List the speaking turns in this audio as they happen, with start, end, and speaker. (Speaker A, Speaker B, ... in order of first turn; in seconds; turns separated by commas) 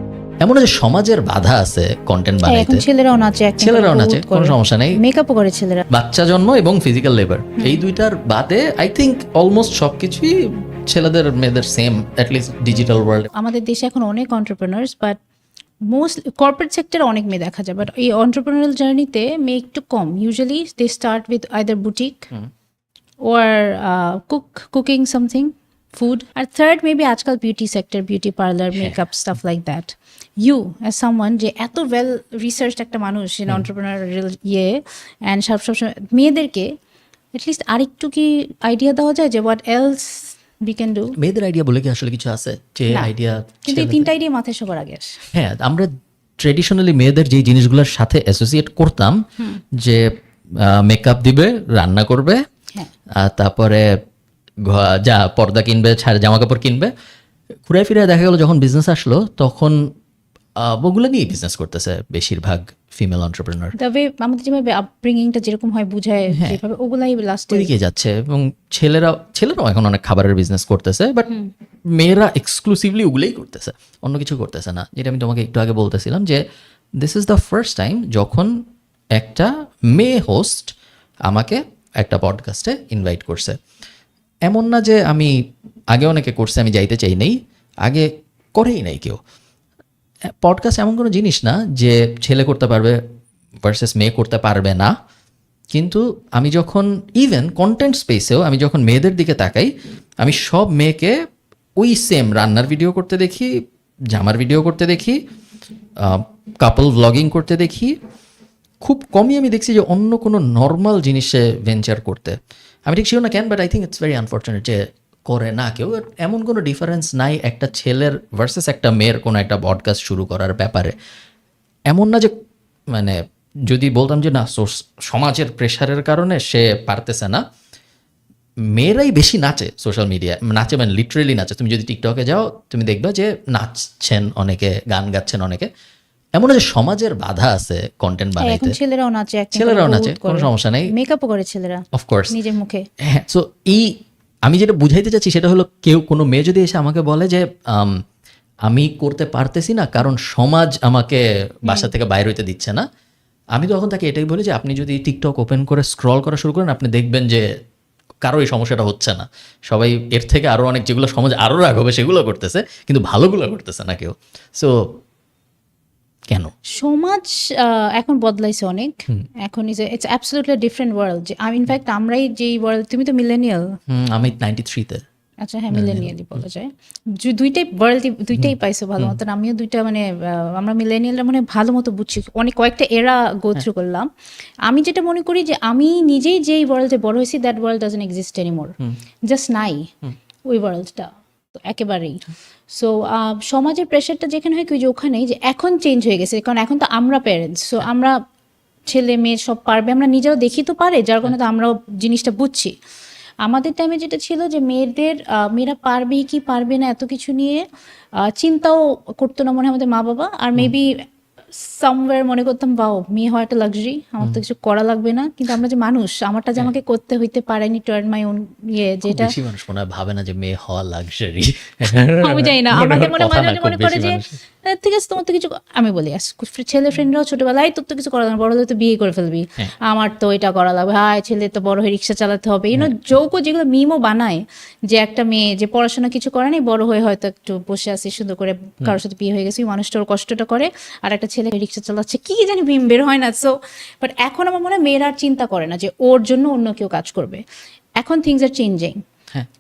Speaker A: 0.4-2.8, Speaker B: 2.5-5.9, Speaker A: 3.6-5.0, Speaker A: 5.9-10.3, Speaker A: 10.9-13.3, Speaker B: 13.3-15.2, Speaker B: 15.9-22.3, Speaker B: 23.2-36.7, Speaker B: 37.3-41.1, Speaker A: 41.2-44.1, Speaker B: 43.7-45.2, Speaker A: 45.3-49.2, Speaker A: 49.7-52.4, Speaker A: 53.2-53.9, Speaker A: 54.7-56.9, Speaker A: 57.7-59.8, Speaker A: 60.6-63.8, Speaker B: 63.8-67.7, Speaker A: 66.3-66.6, Speaker A: 67.5-71.3, Speaker A: 72.0-76.4, Speaker A: 77.0-78.6, Speaker A: 79.2-80.7, Speaker A: 81.3-83.6, Speaker A: 84.5-85.3, Speaker A: 85.9-89.2, Speaker A: 90.4-93.0, Speaker A: 93.6-94.9, Speaker A: 95.7-99.7, Speaker A: 100.2-101.1, Speaker A: 101.8-103.5, Speaker A: 104.1-105.2, Speaker A: 106.0-108.0, Speaker A: 108.8-121.0, Speaker A: 121.9-122.3, Speaker A: 122.9-127.4, Speaker A: 128.7-135.7, Speaker A: 136.4-138.8, Speaker B: 138.4-142.9, Speaker A: 139.6-140.9, Speaker A: 141.9-142.3, Speaker A: 143.0-143.9, Speaker A: 144.5-148.0, Speaker A: 148.7-152.8, Speaker B: 151.7-151.9, Speaker A: 153.6-157.5, Speaker A: 158.2-164.7, Speaker B: 166.7-173.7, Speaker A: 173.9-175.0, Speaker B: 175.4-184.1, Speaker A: 175.7-176.4, Speaker A: 178.3-179.2, Speaker B: 184.7-188.7, Speaker B: 189.3-189.9, Speaker B: 190.5-198.2, Speaker B: 198.9-202.7, Speaker B: 203.4-207.6, Speaker B: 208.2-210.9, Speaker B: 211.5-219.3, Speaker A: 219.1-224.4, Speaker B: 222.2-247.4, Speaker B: 248.0-249.0